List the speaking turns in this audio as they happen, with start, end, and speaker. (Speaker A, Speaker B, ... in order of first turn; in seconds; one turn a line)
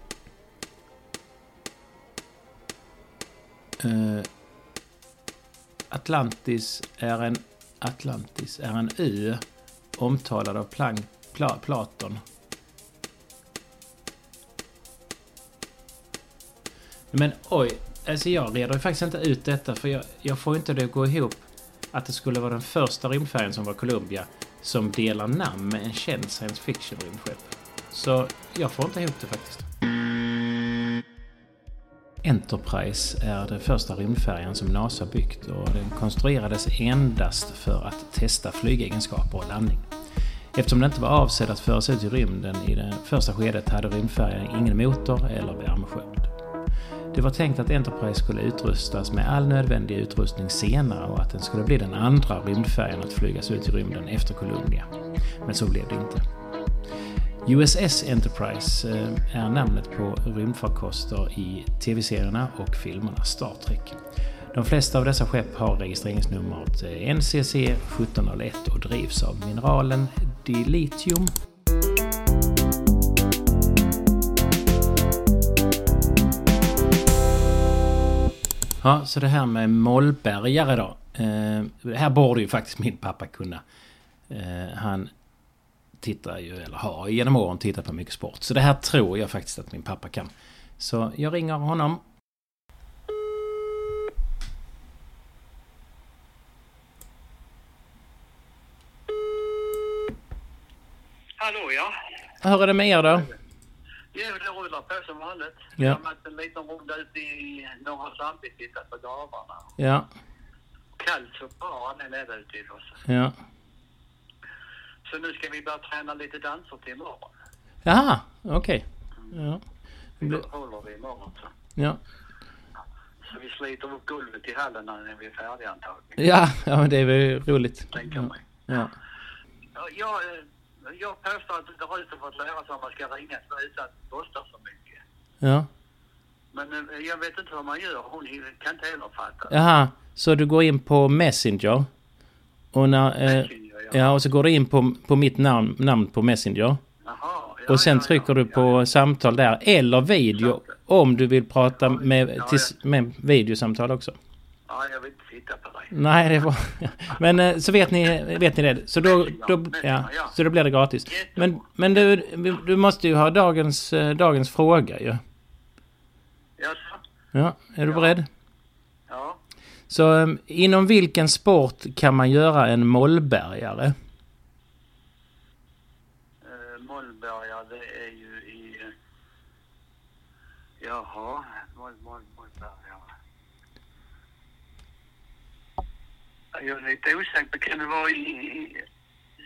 Speaker A: 3.8-4.3
Speaker A: 5.9-9.4
Speaker A: 10.0-12.2
Speaker A: 17.1-29.7
Speaker A: 32.2-39.9
Speaker A: 40.5-46.3
Speaker A: 47.1-54.9
Speaker A: 55.4-56.2
Speaker A: 57.4-64.0
Speaker A: 64.5-71.3
Speaker A: 78.8-83.6
Speaker A: 84.3-85.1
Speaker A: 86.0-92.0
Speaker B: 101.4-101.9
Speaker A: 102.4-103.3
Speaker B: 104.1-109.7
Speaker A: 109.8-110.1
Speaker B: 111.0-113.0
Speaker A: 113.0-113.3
Speaker B: 115.1-117.3
Speaker A: 117.8-119.6
Speaker B: 120.2-121.5
Speaker B: 123.2-126.2
Speaker A: 126.2-128.9
Speaker B: 127.9-128.4
Speaker B: 129.7-135.0
Speaker A: 135.4-135.7
Speaker B: 136.5-139.5
Speaker A: 139.5-141.9
Speaker A: 142.7-146.8
Speaker B: 143.2-144.2
Speaker B: 147.0-148.8
Speaker A: 147.7-154.2
Speaker B: 152.4-152.7
Speaker B: 154.7-155.9
Speaker A: 155.9-165.2
Speaker B: 159.0-160.3
Speaker B: 161.1-161.6
Speaker B: 166.6-167.0
Speaker A: 167.3-168.3
Speaker B: 169.1-169.4
Speaker A: 169.9-173.9
Speaker B: 176.4-178.9
Speaker B: 180.8-183.1
Speaker B: 186.5-188.8